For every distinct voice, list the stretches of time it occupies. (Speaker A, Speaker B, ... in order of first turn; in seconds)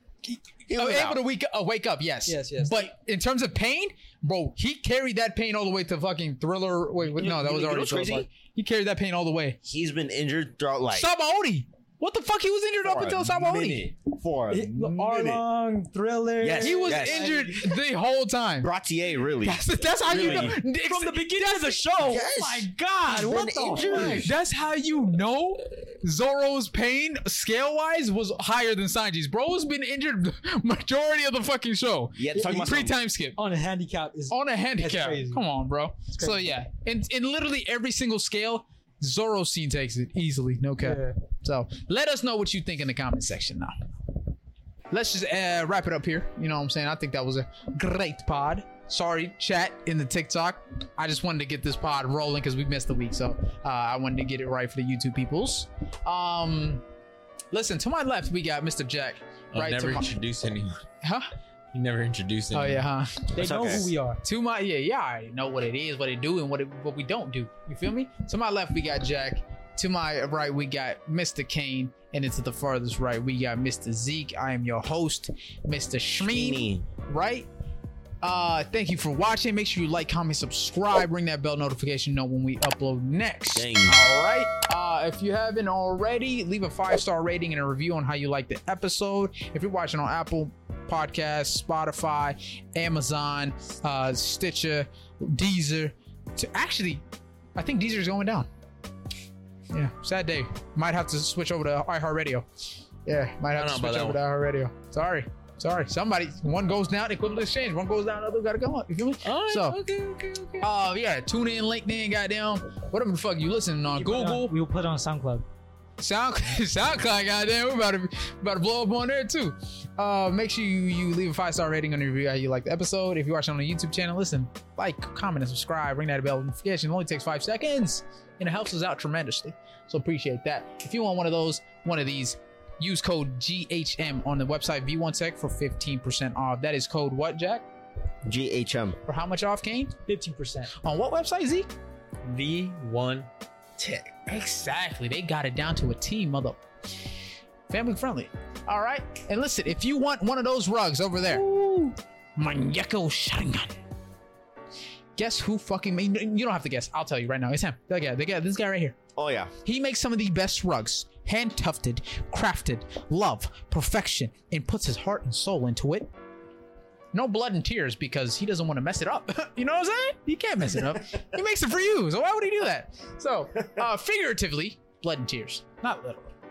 Speaker A: 0.2-9.6, 10.9-13.8, 16.6-18.7, 19.4-22.0, 23.9-33.4, 34.3-43.8, 44.9-56.8, 57.5-60.1, 61.0-61.3, 62.5-63.4, 64.2-77.5, 78.2-97.0, 97.5-98.5, 99.7-102.5, 103.0-109.8, 110.6-114.5, 116.0-137.7, 139.1-139.9, 140.8-141.7, 144.3-146.6, 147.7-153.8, 155.2-159.0, 159.7-166.1, 167.1-176.3
Speaker B: 0.7-1.2, 7.1-8.3, 9.6-11.1, 12.8-15.4, 16.4-17.6, 18.6-20.6, 22.0-24.4, 32.2-33.0, 63.4-63.9, 76.2-76.9, 83.5-84.1, 138.2-139.0, 159.2-159.5
Speaker C: 2.3-2.9, 14.5-17.6, 20.1-24.3, 32.3-32.6, 33.4-35.4, 36.1-36.4, 40.8-41.2, 63.3-64.2, 113.9-115.5, 140.1-140.7
Speaker D: 59.5-60.8, 61.7-62.8, 103.5-104.2, 109.2-110.7, 142.2-143.3, 143.8-144.1